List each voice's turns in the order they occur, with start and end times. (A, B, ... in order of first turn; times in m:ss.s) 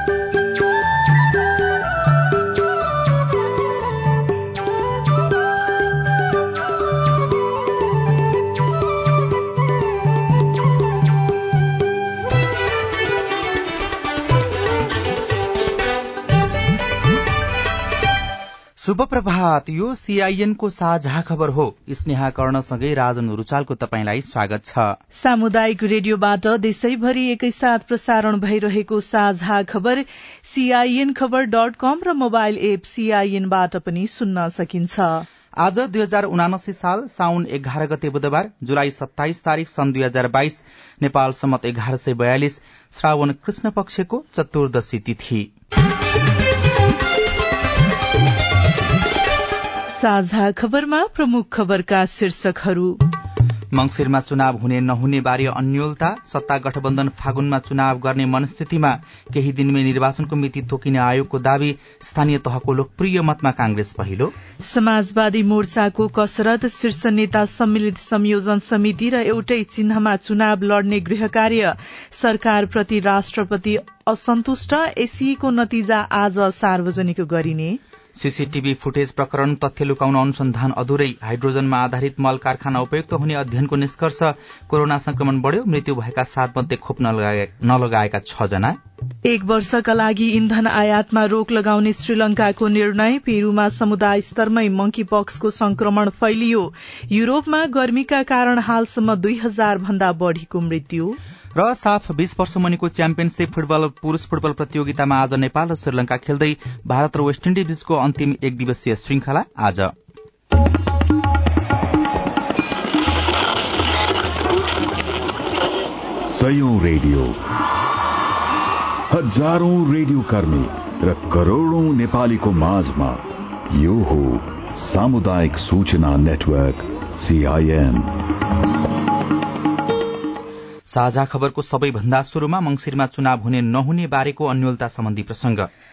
0:18.8-0:24.9 A
0:25.2-0:35.2 B
0:35.6-0:45.5 A
0:49.9-0:53.0 B
0:53.7-1:04.3 A
1:04.6-1:17.8 B
1:18.2-1:28.8 A
1:29.3-1:41.2 B
1:41.6-1:49.9 A
1:56.3-1:57.4 C
1:59.1-2:08.1 C
2:10.9-2:15.7 A